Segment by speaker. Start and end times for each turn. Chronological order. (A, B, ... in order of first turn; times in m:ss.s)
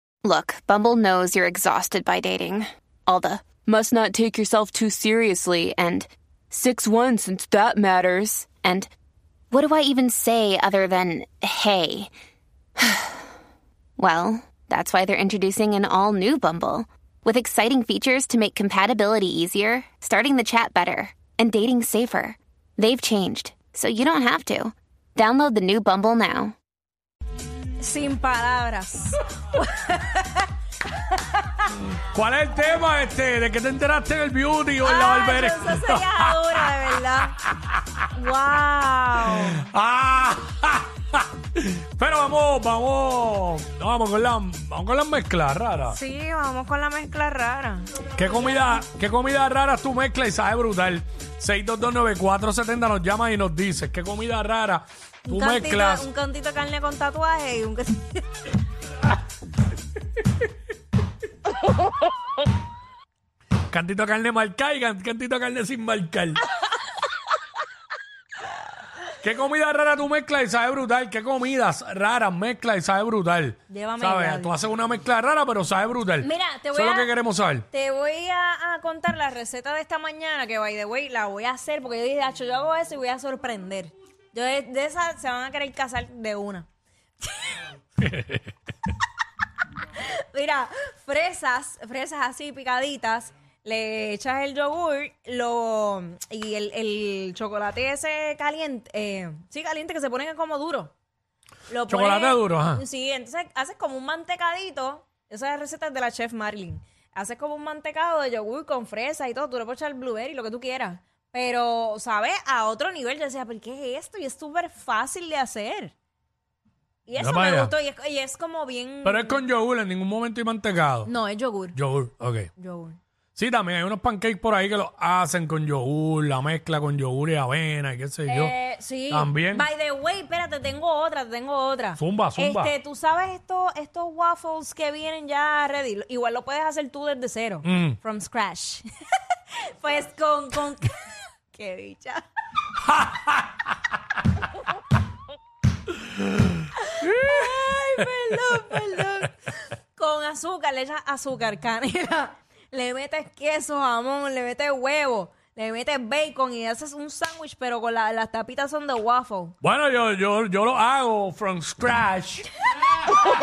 0:00.2-0:08.9 A
0:09.5-0:12.1 A
0:12.8-0:13.2 A
0:14.0-0:26.5 A
0:27.8-0:30.5 B
0:31.0-0:31.7 B
0:32.1-0:36.6 C
0:34.8-0:37.4 B
0:37.4-0:38.1 C
0:38.1-0:39.7 B
0:39.2-0:46.0 C
0:45.9-0:48.8 B
0:48.2-0:56.1 C
0:55.2-0:58.3 B
1:03.7-1:06.4 C
1:09.2-1:17.6 C
1:13.7-1:14.6 B
1:16.2-1:17.1 B
1:17.7-1:26.7 B
1:27.2-1:27.6 B
1:28.0-1:28.5 C
1:29.9-1:40.9 B
1:41.7-1:55.9 B
1:41.9-1:42.8 C
1:57.1-1:59.4 B
1:57.2-1:57.7 C
1:59.0-2:01.1 C
2:01.0-2:01.8 B
2:01.7-2:02.5 C
2:02.6-2:03.0 B
2:03.4-2:08.6 C
2:08.2-2:22.2 B
2:09.1-2:09.7 C
2:12.0-2:12.7 C
2:17.6-2:18.0 C
2:22.8-2:23.5 C
2:26.8-2:39.6 B
2:39.6-2:42.5 C